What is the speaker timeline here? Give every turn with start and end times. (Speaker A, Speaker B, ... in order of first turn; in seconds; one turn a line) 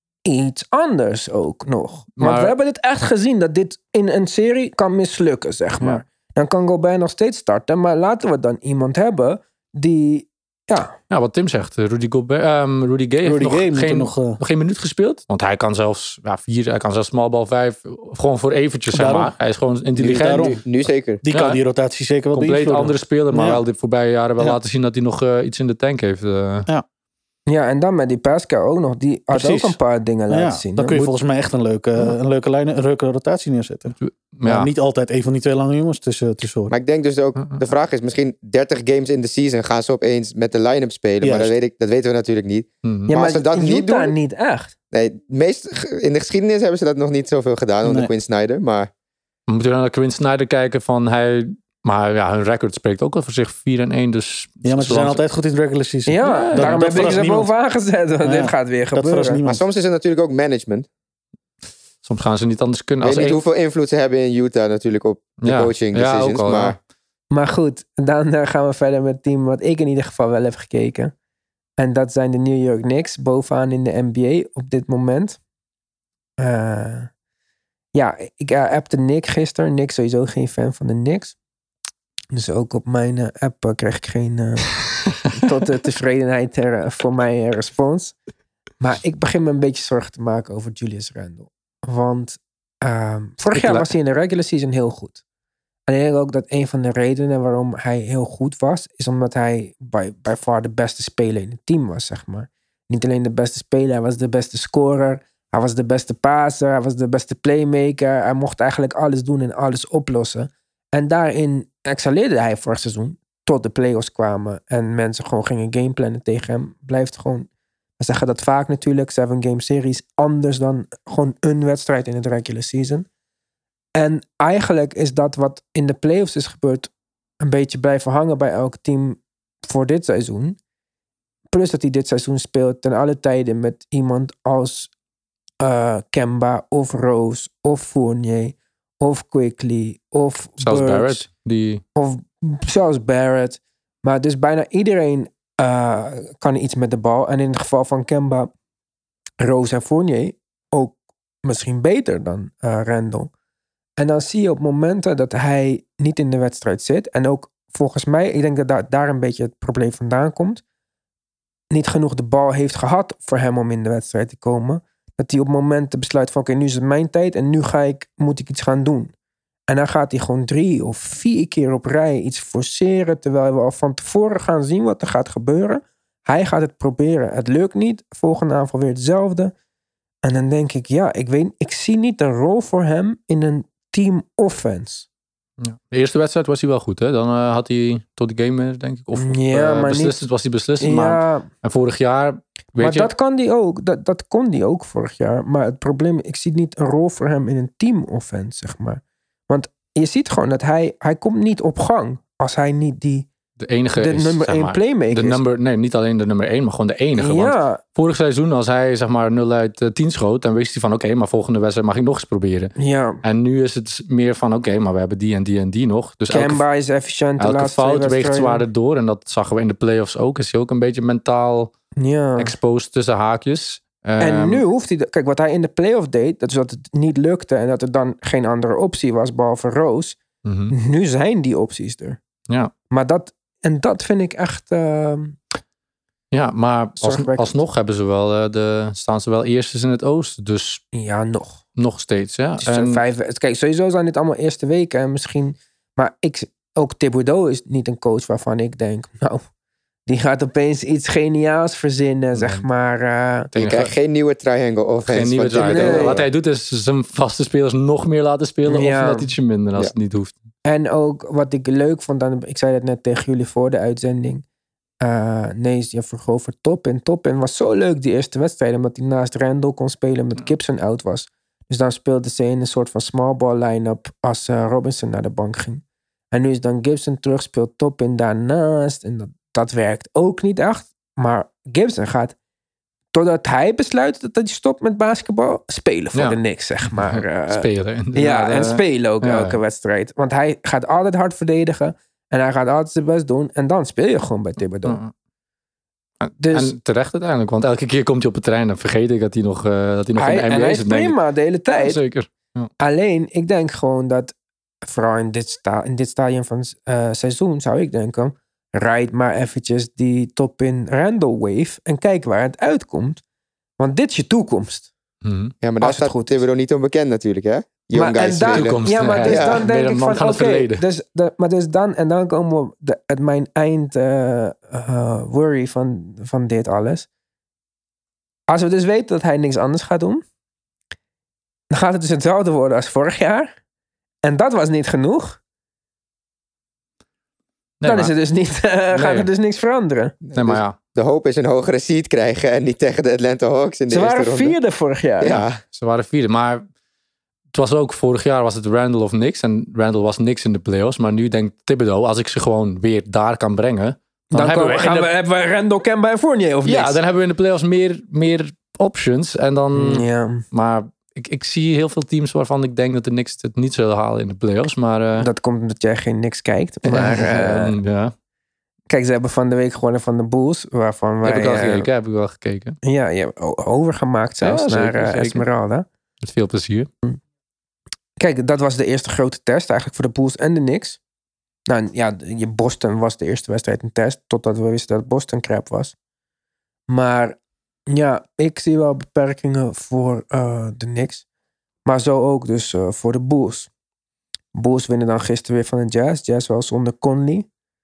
Speaker A: 0.2-10.9
Speaker B: 2.2-2.5
Speaker B: 11.1-20.6
Speaker C: 13.2-14.4
Speaker C: 18.9-19.4
Speaker C: 19.9-20.6
Speaker D: 20.0-21.2
Speaker C: 21.2-23.6
Speaker B: 21.3-21.6
Speaker B: 22.3-26.7
Speaker A: 27.5-31.1
Speaker C: 29.3-29.8
Speaker C: 30.3-36.7
Speaker B: 34.0-34.7
Speaker D: 36.7-44.1
Speaker B: 37.4-37.6
Speaker C: 41.2-41.5
Speaker B: 42.8-43.1
Speaker A: 43.1-44.7
Speaker D: 44.9-48.9
Speaker C: 47.8-48.1
Speaker B: 49.5-55.2
Speaker C: 54.6-57.5
Speaker A: 56.1-59.4
Speaker B: 56.2-57.2
Speaker C: 58.2-59.6
Speaker D: 59.4-60.9
Speaker B: 62.0-63.4
Speaker D: 63.0-66.8
Speaker B: 65.4-66.8
Speaker A: 67.3-71.1
Speaker A: 71.8-75.4
Speaker A: 76.4-77.1
Speaker A: 77.9-81.3
Speaker A: 82.3-84.7
Speaker A: 85.3-88.2
Speaker A: 88.8-95.2
Speaker B: 93.5-93.8
Speaker A: 95.9-117.5
Speaker A: 118.0-123.1
Speaker A: 124.0-130.6
Speaker A: 131.5-134.9
Speaker A: 135.6-141.3
Speaker B: 140.6-141.8
Speaker A: 141.9-148.5
Speaker A: 149.4-153.3
Speaker A: 154.0-160.6
Speaker A: 161.7-169.1
Speaker A: 169.7-179.5
Speaker A: 180.2-185.1
Speaker B: 185.6-193.1
Speaker A: 189.2-190.2
Speaker A: 190.8-191.5
Speaker A: 192.8-203.3
Speaker B: 203.6-216.6
Speaker A: 203.9-205.4
Speaker A: 207.2-207.8
Speaker A: 212.8-213.2
Speaker A: 216.3-218.6
Speaker B: 217.4-221.7
Speaker A: 222.0-222.6
Speaker B: 222.4-224.6
Speaker A: 224.2-230.2
Speaker B: 230.4-230.7
Speaker A: 230.7-232.2
Speaker A: 232.9-235.4
Speaker B: 236.3-240.8
Speaker A: 237.0-237.6
Speaker A: 240.9-241.6
Speaker B: 241.8-243.0
Speaker A: 242.6-249.4
Speaker A: 250.1-253.5
Speaker B: 252.3-252.6
Speaker B: 253.5-253.9
Speaker D: 253.6-256.3
Speaker B: 255.1-260.4
Speaker A: 255.5-256.2
Speaker A: 258.7-259.3
Speaker A: 260.6-264.4
Speaker A: 265.0-282.3
Speaker A: 283.1-295.0
Speaker B: 286.1-289.6
Speaker B: 294.8-295.1
Speaker B: 296.2-301.2
Speaker A: 296.4-296.7
Speaker A: 300.1-302.0
Speaker B: 301.7-302.7
Speaker A: 302.8-313.2
Speaker A: 313.8-314.9
Speaker B: 315.2-315.5
Speaker D: 315.6-319.6
Speaker A: 315.8-316.4
Speaker A: 317.9-327.1
Speaker B: 318.5-320.8
Speaker A: 328.5-330.2
Speaker A: 331.7-333.5
Speaker A: 334.2-335.4
Speaker B: 337.8-338.1
Speaker A: 337.8-340.1
Speaker B: 338.9-339.3
Speaker D: 340.2-344.6
Speaker B: 340.3-340.8
Speaker A: 343.9-345.4
Speaker D: 345.2-345.6
Speaker B: 345.4-346.6
Speaker B: 347.5-355.1
Speaker A: 354.3-357.0
Speaker B: 356.6-365.3
Speaker A: 359.7-360.4
Speaker A: 365.2-367.7
Speaker B: 366.9-368.1
Speaker A: 368.9-371.9
Speaker B: 371.2-372.8
Speaker A: 372.8-375.9
Speaker B: 374.4-375.4
Speaker B: 376.2-376.9
Speaker A: 378.2-381.0
Speaker A: 381.7-385.9
Speaker A: 386.9-387.4
Speaker A: 387.9-391.2
Speaker A: 391.9-393.7
Speaker A: 394.5-397.5